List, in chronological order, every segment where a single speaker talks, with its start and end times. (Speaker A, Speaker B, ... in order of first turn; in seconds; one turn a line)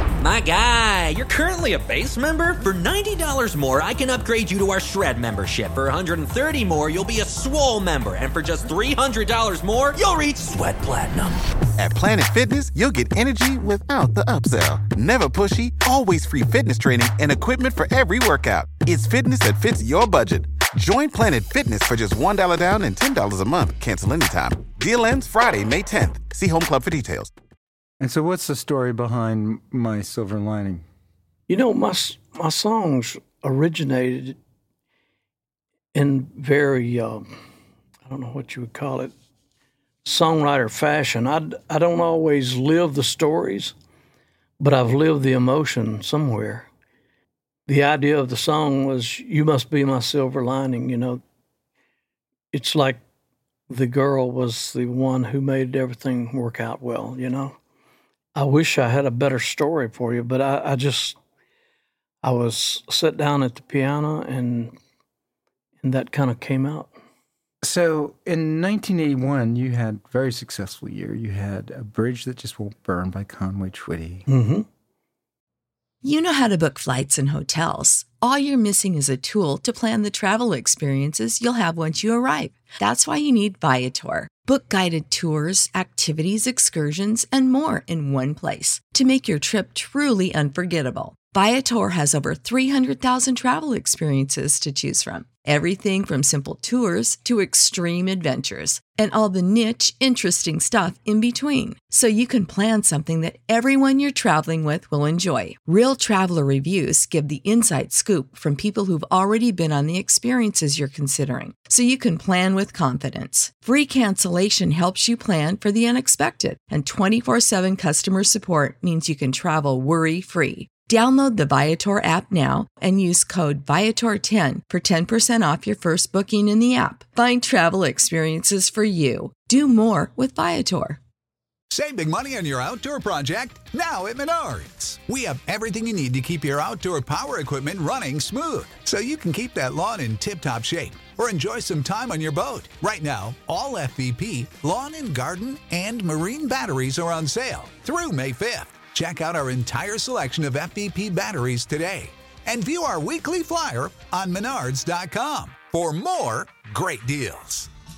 Speaker A: 0.3-11.3
Speaker B: 11.8-27.3
Speaker C: 28.0-30.9
Speaker D: 31.5-34.4
Speaker D: 35.9-37.3
Speaker D: 38.0-39.1
Speaker D: 40.0-43.8
Speaker D: 44.6-46.7
Speaker D: 47.7-51.2
Speaker D: 52.5-53.0
Speaker D: 53.7-57.6
Speaker D: 58.4-61.2
Speaker D: 62.2-64.8
Speaker D: 65.8-66.9
Speaker C: 67.6-74.3
Speaker D: 74.3-74.7
Speaker E: 76.0-131.0
Speaker F: 131.7-157.7